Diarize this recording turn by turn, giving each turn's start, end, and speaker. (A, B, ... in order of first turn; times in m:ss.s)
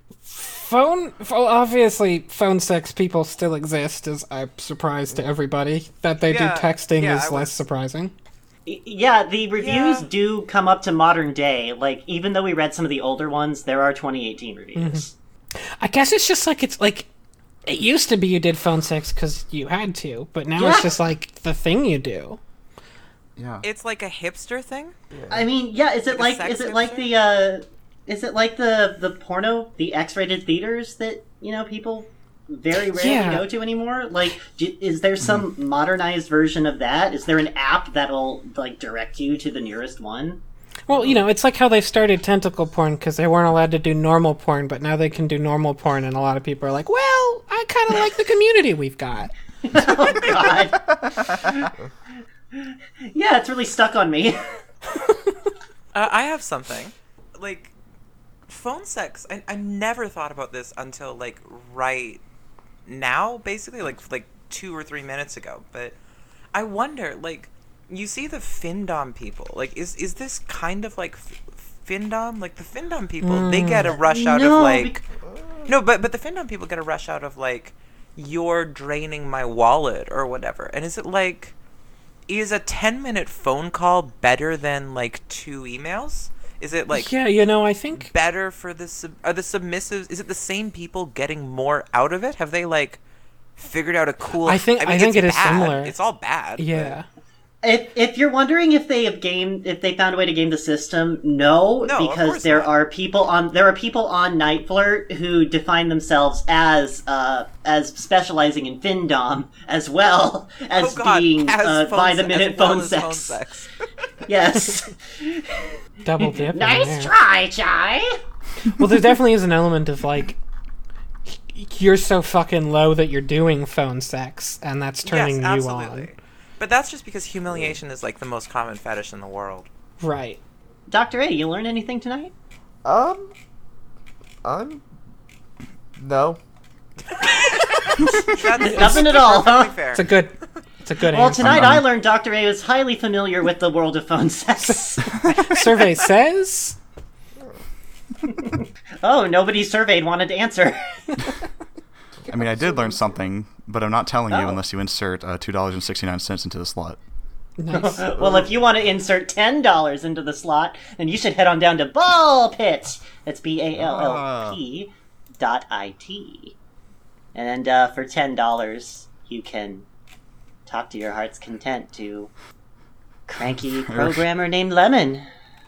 0:00.3-0:08.1 A
0:06.3-0:07.6 B
0:08.7-0:15.1 C
0:09.6-0:10.1 B
0:14.8-0:15.1 A
0:15.8-0:17.1 A
0:17.7-0:22.4 A
0:20.6-0:21.0 C
0:23.4-0:23.7 D
0:23.6-0:25.0 B
0:25.1-0:25.5 E
0:25.3-0:40.4 C
0:26.1-0:27.1 B
0:32.9-0:33.4 A
0:35.2-0:35.5 D
0:40.9-0:49.3 A
0:49.6-0:51.7 C
0:52.5-0:54.4 C
0:55.9-0:57.7 B
0:58.5-1:02.2 B
1:02.9-1:06.0 B
1:06.5-1:15.0 B
1:13.2-1:13.9 A
1:13.9-1:15.0 C
1:15.2-1:15.7 E
1:15.7-1:21.5 B
1:22.3-1:27.2 B
1:26.9-1:28.1 A
1:28.0-1:33.0 B
1:33.6-1:37.0 B
1:34.4-1:36.0 A
1:36.6-1:37.0 A
1:37.6-1:53.4 C
1:41.8-1:42.7 B
1:50.8-1:53.7 B
1:54.3-1:58.2 C
1:56.0-1:57.1 A
1:58.6-2:00.4 A
2:01.3-2:06.1 A
2:05.1-2:09.7 B
2:07.5-2:07.8 E
2:10.0-2:10.4 A
2:10.9-2:12.3 C
2:12.8-2:13.3 E
2:14.4-2:14.8 E
2:16.0-2:16.4 E
2:17.3-2:19.0 A
2:18.3-2:20.1 B
2:18.6-2:19.8 C
2:19.9-2:21.8 A
2:21.1-2:25.1 C
2:21.4-2:21.9 D
2:24.6-2:26.8 A
2:28.3-2:30.8 C
2:32.3-2:37.0 D
2:34.3-2:34.6 C
2:37.6-2:38.1 A
2:37.7-2:46.5 C
2:38.2-2:38.6 E
2:43.8-2:44.6 D
2:47.4-2:49.9 C
2:50.7-2:52.3 C
2:53.3-2:55.3 C
2:53.8-2:54.3 D